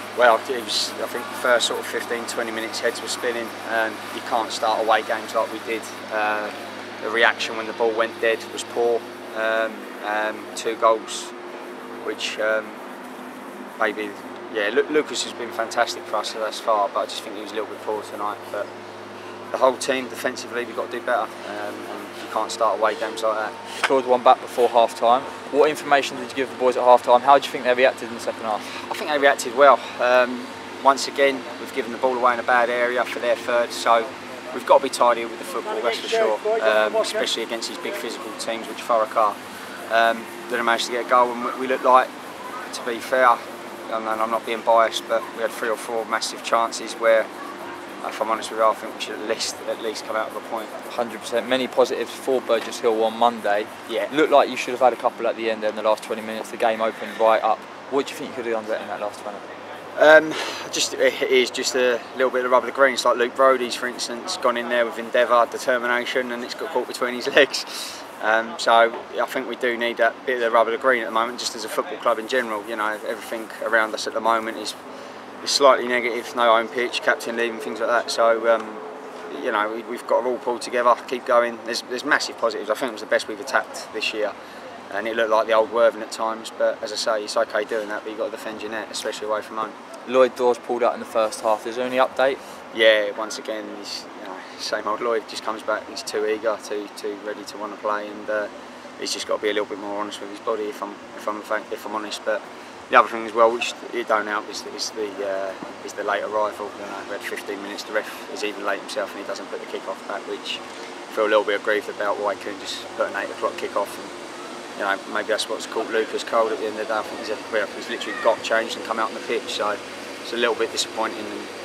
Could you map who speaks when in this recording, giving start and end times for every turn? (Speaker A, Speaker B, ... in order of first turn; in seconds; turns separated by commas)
Speaker A: 0.1-11.3, Speaker A: 12.0-12.8, Speaker A: 13.8-18.7, Speaker A: 19.5-23.7, Speaker B: 23.8-28.7, Speaker A: 28.7-42.1, Speaker A: 42.7-47.3, Speaker A: 48.0-50.7, Speaker B: 50.9-59.4, Speaker A: 53.9-54.1, Speaker A: 60.0-74.8, Speaker A: 75.4-84.3, Speaker A: 84.9-89.8, Speaker B: 90.1-92.4, Speaker A: 92.7-114.1, Speaker A: 114.8-121.5